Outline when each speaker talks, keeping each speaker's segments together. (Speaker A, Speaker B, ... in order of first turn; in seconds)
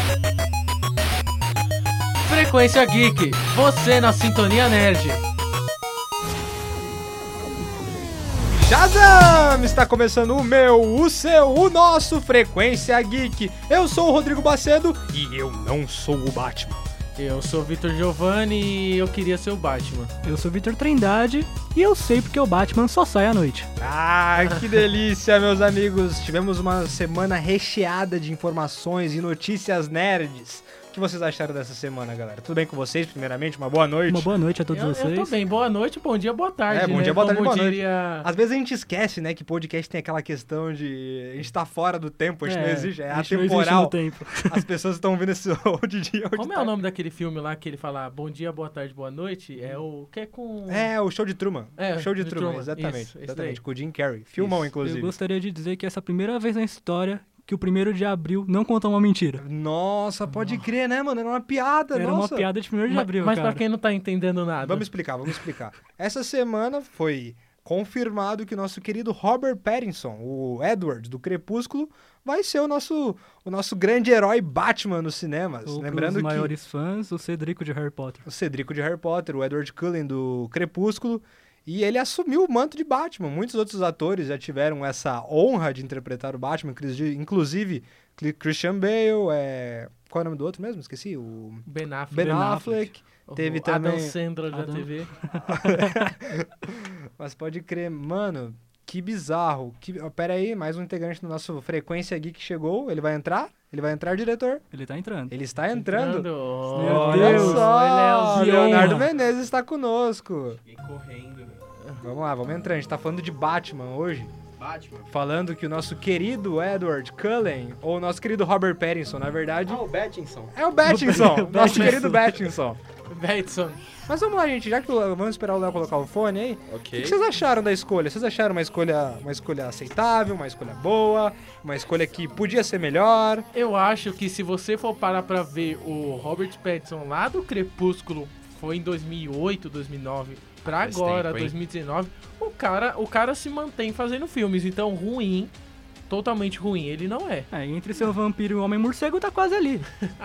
Speaker A: 2.2-5.2, 17.2-20.1, 34.7-38.3, 46.4-50.9, 51.8-53.6, 62.9-64.9, 91.7-92.6, 93.2-95.1, 105.7-108.3, 123.1-123.8, 133.5-145.5, 146.1-147.5
Speaker B: 8.5-16.8, 23.8-34.3, 36.7-46.7, 50.7-55.1, 59.4-62.5, 64.6-76.5, 78.2-94.2, 95.5-104.6, 105.3-110.6, 112.0-114.3, 115.1-119.8, 120.5-122.8, 124.1-133.4
Speaker C: 20.2-23.7, 34.1-35.3, 42.4-44.6, 54.8-59.4, 61.9-63.6, 75.6-78.2, 92.1-92.9, 94.5-96.1, 104.7-105.3, 106.7-109.1, 120.8-122.5, 147.5-149.9
Speaker D: 110.6-111.7, 114.6-115.1, 119.7-120.5, 126.7-127.2, 140.7-141.5